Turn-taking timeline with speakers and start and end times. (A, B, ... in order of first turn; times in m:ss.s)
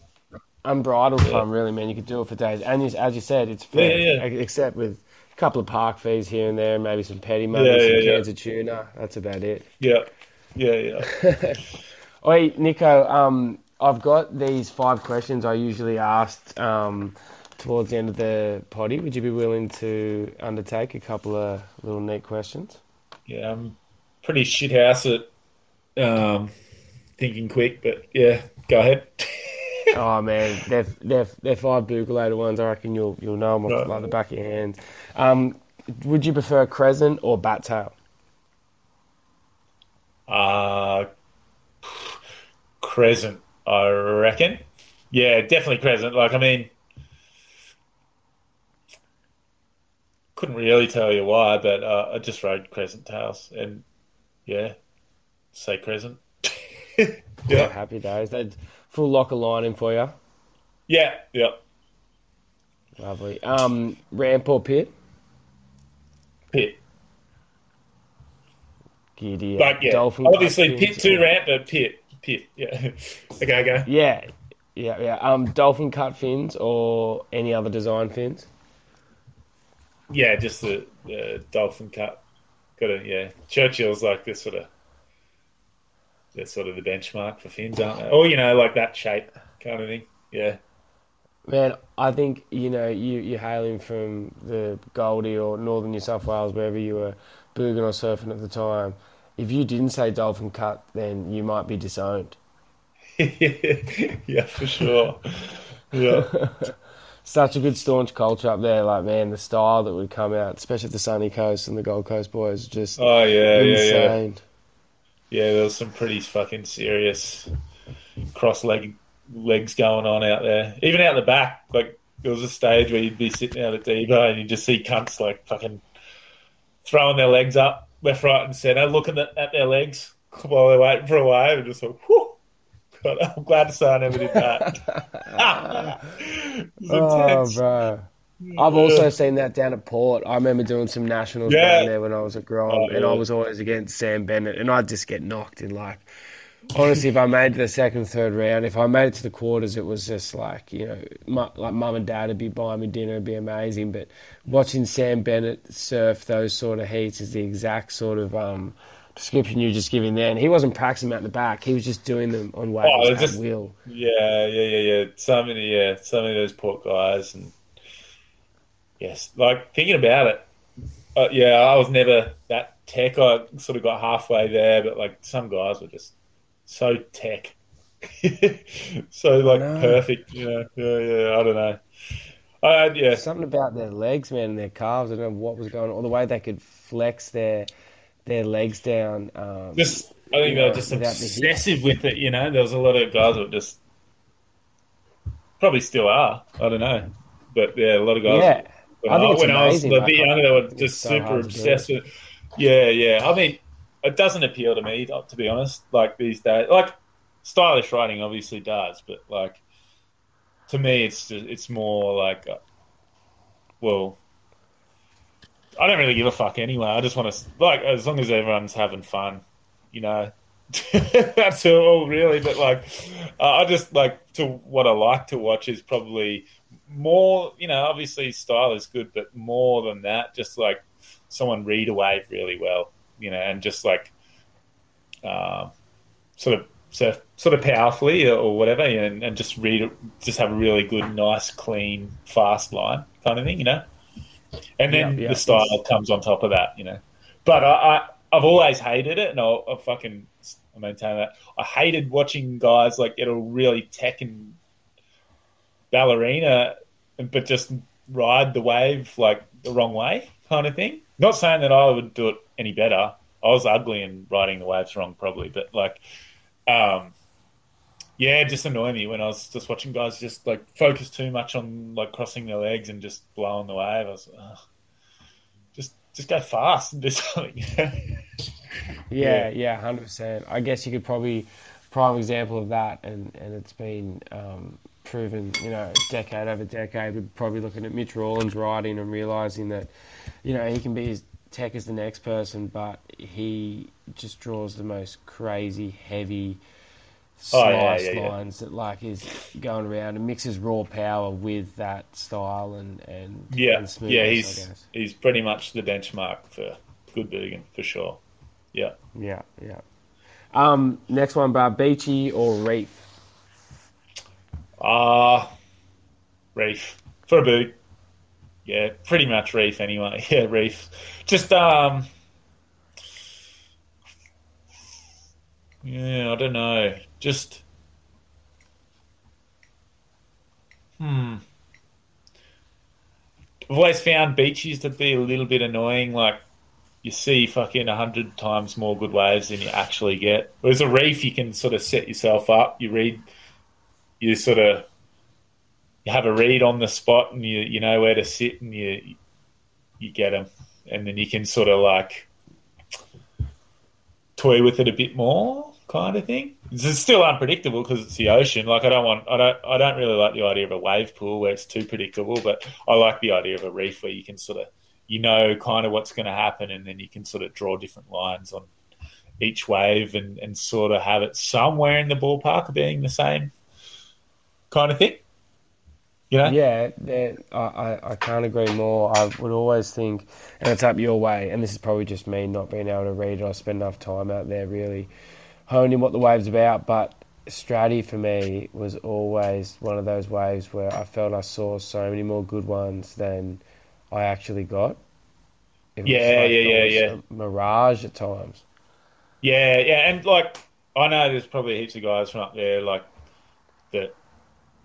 0:00.6-0:09.7 A
0:03.7-0:04.2 B
0:07.5-0:08.2 B
0:09.8-0:11.1 B
0:11.1-0:11.6 A
0:12.2-0:22.8 A
0:23.3-0:25.3 B
0:26.0-0:26.5 B
0:27.2-0:29.9 B
0:29.9-0:38.0 A
0:33.7-0:33.9 B
0:40.3-0:41.1 B
0:41.8-0:42.2 B
0:42.8-0:46.7 B
0:50.4-0:53.8 B
0:54.5-0:54.8 B
0:55.5-0:57.7 B
0:57.5-1:00.2 A
1:00.9-1:01.6 B
1:03.0-1:04.9 A
1:06.5-1:06.8 B
1:09.2-1:11.3 A
1:09.6-1:13.9 B
1:13.9-1:18.5 A
1:20.1-1:22.2 B
1:22.8-1:24.7 B
1:26.3-1:30.6 B
1:31.5-1:42.4 A
1:43.2-1:46.3 B
1:46.1-1:54.4 A
1:53.0-1:54.2 B
1:55.3-1:57.5 B
1:58.3-2:05.8 B
2:06.8-2:12.4 B
2:12.9-2:17.6 B
2:14.3-2:16.0 A
2:16.9-2:26.1 A
2:18.4-2:19.1 B
2:21.5-2:21.9 B
2:22.7-2:23.2 B
2:26.7-2:43.8 A
2:42.8-2:47.6 B
2:49.0-2:50.5 B
2:51.2-2:56.1 B
2:56.7-3:01.8 B
2:59.4-3:00.0 A
3:02.6-3:03.2 B
3:03.1-3:07.7 A
3:08.3-3:11.6 A
3:09.8-3:13.8 B
3:15.6-3:22.0 B
3:18.2-3:21.9 A
3:22.6-3:29.6 B
3:30.7-3:32.6 B
3:33.8-3:34.2 B
3:35.8-3:54.1 B
3:55.2-3:55.7 B
3:56.4-4:03.9 B
4:04.8-4:14.6 B
4:04.9-4:05.8 A
4:15.9-4:26.0 B
4:26.7-4:27.2 B
4:28.2-4:34.6 B
4:35.8-4:38.2 B
4:39.1-4:49.9 A
4:39.2-4:39.5 B
4:50.4-4:56.6 A
4:57.4-5:04.9 A
4:57.5-4:58.4 B
5:03.5-5:08.2 B
5:09.2-5:09.8 A
5:10.5-5:13.1 A
5:14.8-5:15.5 B
5:16.6-5:17.8 B
5:18.6-5:22.1 B
5:25.8-5:27.6 B
5:31.0-5:31.4 B
5:33.7-5:36.4 B
5:37.0-5:43.3 B
5:44.2-5:44.9 B
5:46.0-5:49.2 B
5:50.0-5:52.3 B
5:54.4-6:08.7 B
6:09.4-6:13.5 B
6:14.7-6:15.2 B
6:16.3-6:16.6 B
6:16.4-6:25.1 A
6:25.7-6:35.0 A
6:36.0-6:38.6 A
6:36.0-6:37.2 B
6:39.4-6:43.1 B
6:43.9-6:44.2 B